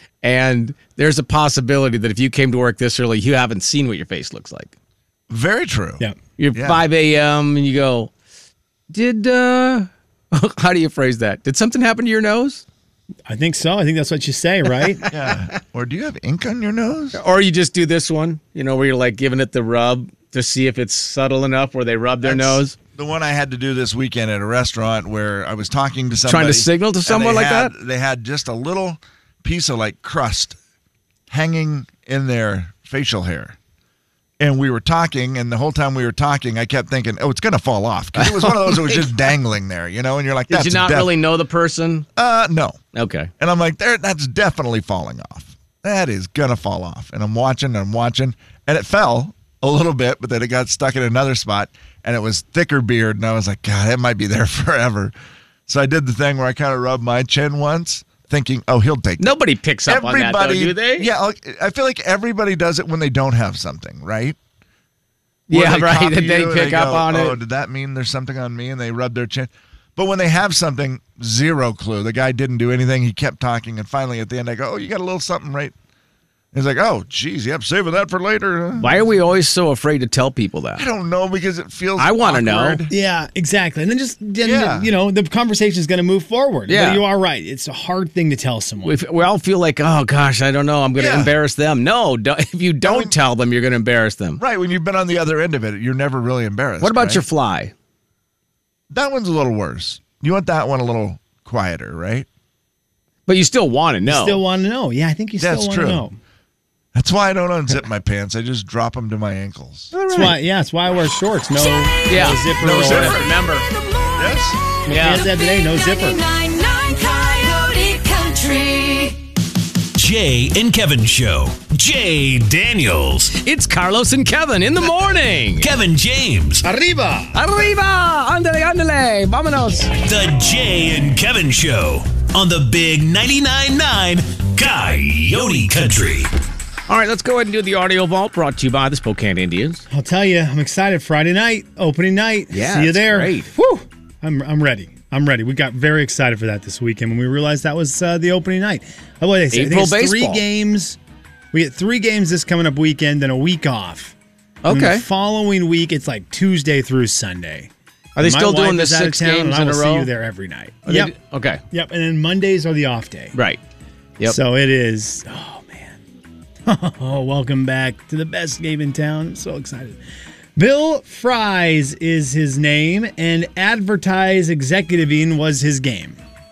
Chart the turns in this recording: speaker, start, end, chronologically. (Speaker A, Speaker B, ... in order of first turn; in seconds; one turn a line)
Speaker A: 0.2-4.7
Speaker B: 5.3-6.8
Speaker A: 6.4-8.1
Speaker A: 8.9-12.6
Speaker C: 13.3-15.1
Speaker B: 15.1-17.2
Speaker A: 17.1-22.8
Speaker B: 22.2-30.6
Speaker A: 26.3-27.7
Speaker B: 31.3-33.6
Speaker B: 34.4-41.2
Speaker A: 38.2-39.1
Speaker A: 40.5-42.0
Speaker B: 42.2-42.8
Speaker A: 42.9-43.3
Speaker B: 43.4-55.1
Speaker B: 55.7-59.4
Speaker A: 59.2-61.1
Speaker B: 59.9-64.4
Speaker A: 65.5-67.4
Speaker B: 65.5-75.7
Speaker B: 76.5-79.1
Speaker A: 78.8-80.8
Speaker B: 80.8-82.9
Speaker A: 82.0-82.8
Speaker C: 82.9-89.0
Speaker B: 84.4-84.9
Speaker A: 86.7-87.0
Speaker A: 88.8-94.4
Speaker B: 91.0-91.3
Speaker B: 92.8-93.2
Speaker B: 94.4-97.2
Speaker A: 96.8-97.7
Speaker B: 98.9-102.3
Speaker A: 103.3-104.4
Speaker C: 104.1-106.2
Speaker B: 105.4-106.1
Speaker B: 106.9-109.9
Speaker A: 109.9-110.4
Speaker C: 110.1-113.2
Speaker A: 112.1-113.7
Speaker B: 112.6-113.3
Speaker D: 113.7-114.4
Speaker B: 114.2-114.6
Speaker A: 114.9-115.3
Speaker C: 114.9-116.2
Speaker D: 115.0-119.2
Speaker E: 120.0-123.3
Speaker A: 123.4-125.7
Speaker E: 125.6-126.7
Speaker C: 126.6-127.3
Speaker A: 127.3-129.9
Speaker E: 130.0-136.3
Speaker A: 136.9-139.8
Speaker C: 139.9-151.0
Speaker A: 142.5-143.5
Speaker A: 149.5-150.4
Speaker C: 151.5-154.2
Speaker A: 154.6-155.0
Speaker C: 154.7-161.1
Speaker A: 158.2-160.1
Speaker A: 160.9-161.6
Speaker C: 161.7-163.3
Speaker A: 163.3-163.6
Speaker C: 164.2-166.0
Speaker C: 166.7-170.0
Speaker C: 170.6-176.2